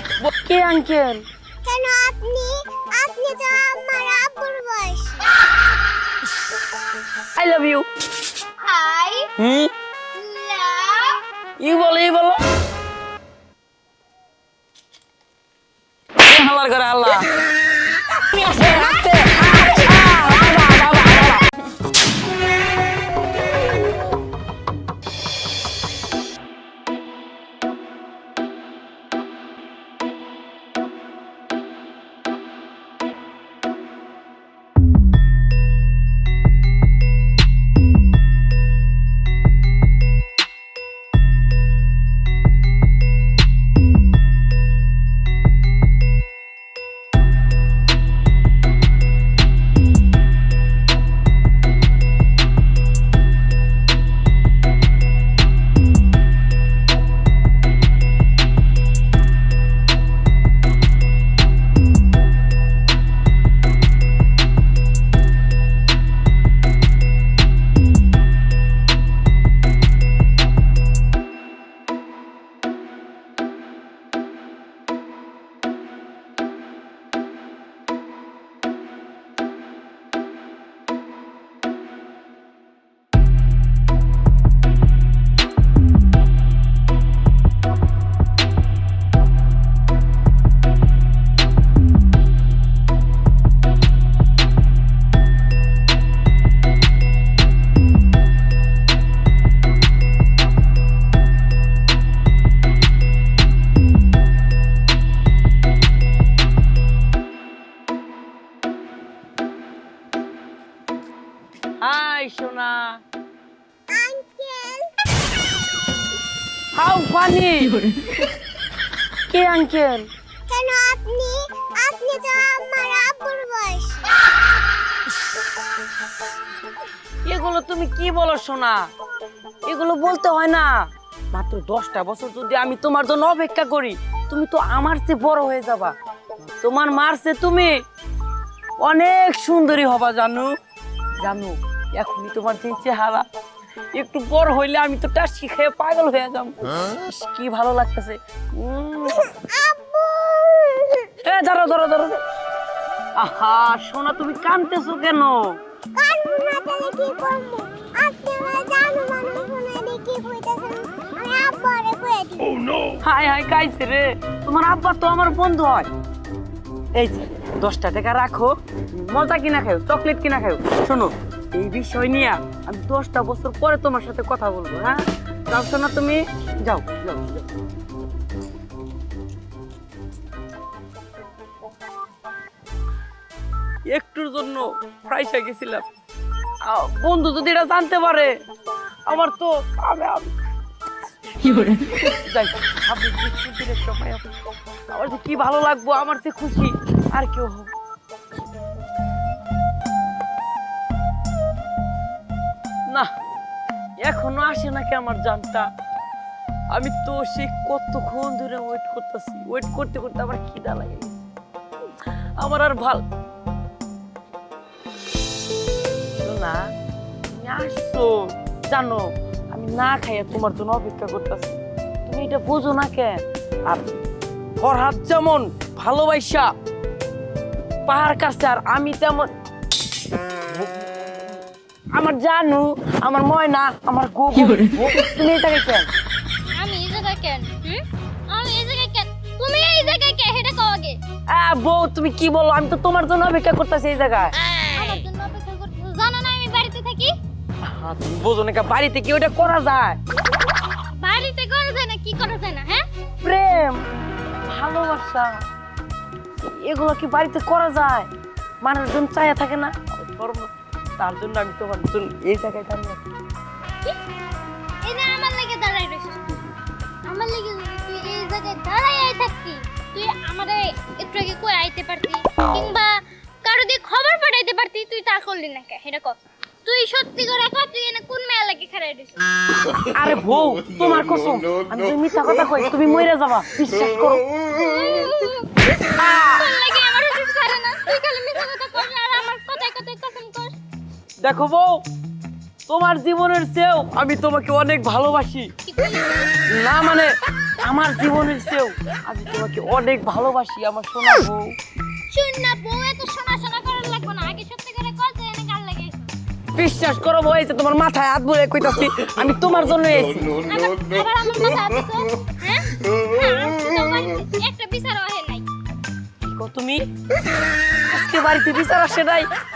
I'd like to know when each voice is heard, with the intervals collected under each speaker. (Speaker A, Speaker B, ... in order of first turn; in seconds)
Speaker A: 0.2-1.2, 7.3-7.8, 9.4-9.7, 11.6-12.4, 16.2-17.2, 18.3-21.4, 111.8-113.0, 116.7-117.8, 119.3-120.1, 127.2-128.9, 129.7-130.7, 131.3-137.7, 138.8-140.5, 141.2-143.2, 143.9-149.3, 151.2-152.2, 153.2-155.4, 163.0-165.9, 166.9-177.5, 183.9-185.8, 186.6-188.3, 189.1-190.3, 192.2-194.2, 194.9-197.7, 204.0-205.7, 206.7-211.2, 212.4-213.0, 216.2-216.6, 217.3-223.8, 224.6-226.5, 227.8-229.3, 231.9-235.9, 241.3-244.3, 247.7-250.0, 253.2-253.8, 254.5-255.4, 256.4-258.1, 258.6-263.0, 279.8-284.2, 285.9-286.4, 291.2-291.8, 292.7-295.5, 296.5-301.5, 306.5-310.4, 316.2-316.8, 317.9-319.3
Speaker B: 1.6-5.3, 113.9-114.9, 120.5-124.2, 149.2-151.1, 155.9-162.6
Speaker C: 8.6-9.3, 10.1-11.2, 236.5-241.0, 244.4-247.1, 251.0-252.8, 264.8-266.4, 267.0-272.9, 273.4-279.2, 284.5-285.5, 286.2-290.6, 295.6-296.3, 302.1-306.1, 310.4-315.4